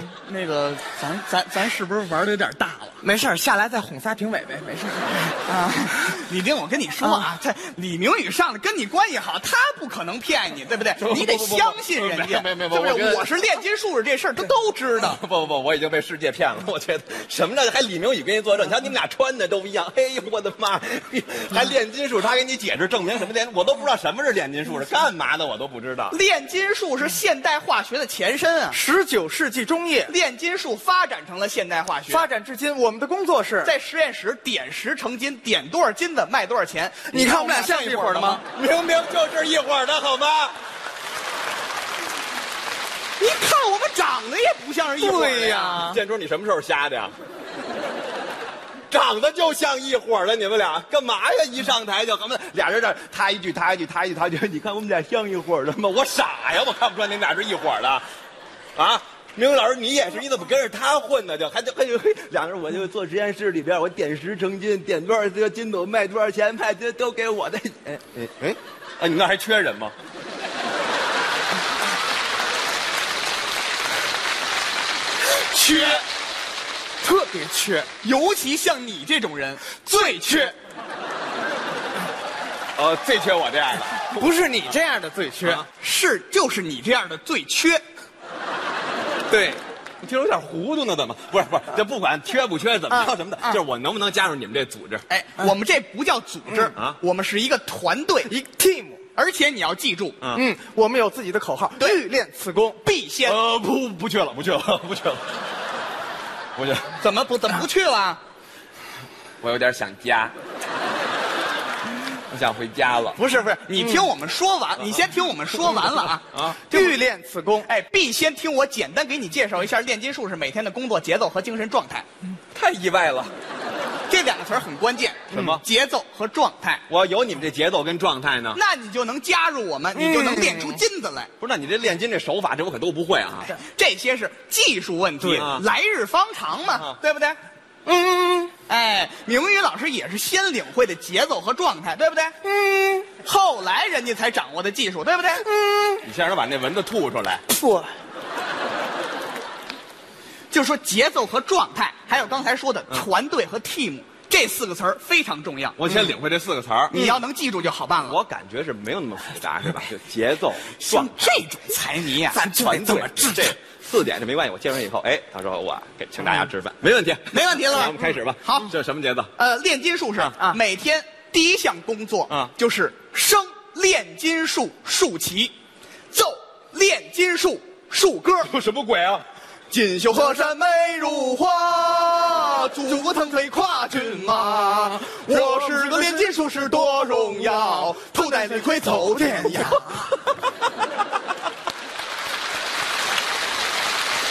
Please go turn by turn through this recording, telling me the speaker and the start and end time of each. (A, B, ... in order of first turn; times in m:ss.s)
0:00.2-0:03.0 A
0:03.0-0:05.4 B
0:05.4-0:15.2 A
0:07.0-0:07.3 B
0:11.0-0:13.2 C
0:12.7-0:13.1 B
0:15.0-0:26.2 C
0:26.1-0:28.8 A
0:28.7-0:30.1 B
0:30.1-0:32.3 A
0:32.1-0:33.7 B
0:33.6-0:38.4 A
0:37.1-0:38.4 B
0:38.5-0:40.6 C
0:43.2-0:45.8 A
0:45.0-0:46.0 B
0:45.8-0:47.1 C
0:48.9-0:58.0 C
0:58.8-1:09.9 C
1:15.4-1:16.0 B
1:17.0-1:17.9 B
1:18.0-1:20.5 A
1:19.9-1:20.5 B
1:22.8-1:24.7 C
1:24.1-1:25.6 B
1:25.8-1:27.8 A
1:29.3-1:35.0 C
1:35.1-1:38.3 A
1:38.3-1:39.0 B
1:39.1-1:40.2 A
1:40.2-1:40.5 C
1:40.3-1:42.8 B
1:42.8-1:43.4 A
1:43.2-1:45.2 C
1:46.6-1:46.9 C
1:47.0-1:48.2 A
1:49.4-1:50.3 C
1:52.3-1:53.2 C
1:53.2-1:57.0 A
1:56.6-1:57.7 B
1:57.6-2:02.1 A
2:02.5-2:03.3 C
2:04.1-2:06.8 A
2:05.3-2:05.6 C
2:06.9-2:08.6 C
2:08.5-2:11.3 A
2:10.1-2:10.8 B
2:11.4-2:13.6 C
2:13.6-2:17.4 A
2:15.4-2:15.6 C
2:17.8-2:18.5 B
2:18.7-2:22.3 A
2:22.4-2:23.1 B
2:23.2-2:25.5 A
2:25.4-2:26.0 B
2:26.0-2:27.4 C
2:27.5-2:27.9 B
2:30.5-2:35.8 A
2:35.8-2:37.1 C
2:36.9-2:38.2 A
2:38.0-2:41.2 C
2:40.8-2:42.4 A
2:42.3-2:49.3 C
2:42.5-2:43.5 B
2:47.3-2:48.7 A
2:49.4-2:55.5 A
2:56.1-2:58.5 A
2:58.4-2:59.2 C
2:59.7-3:10.0 A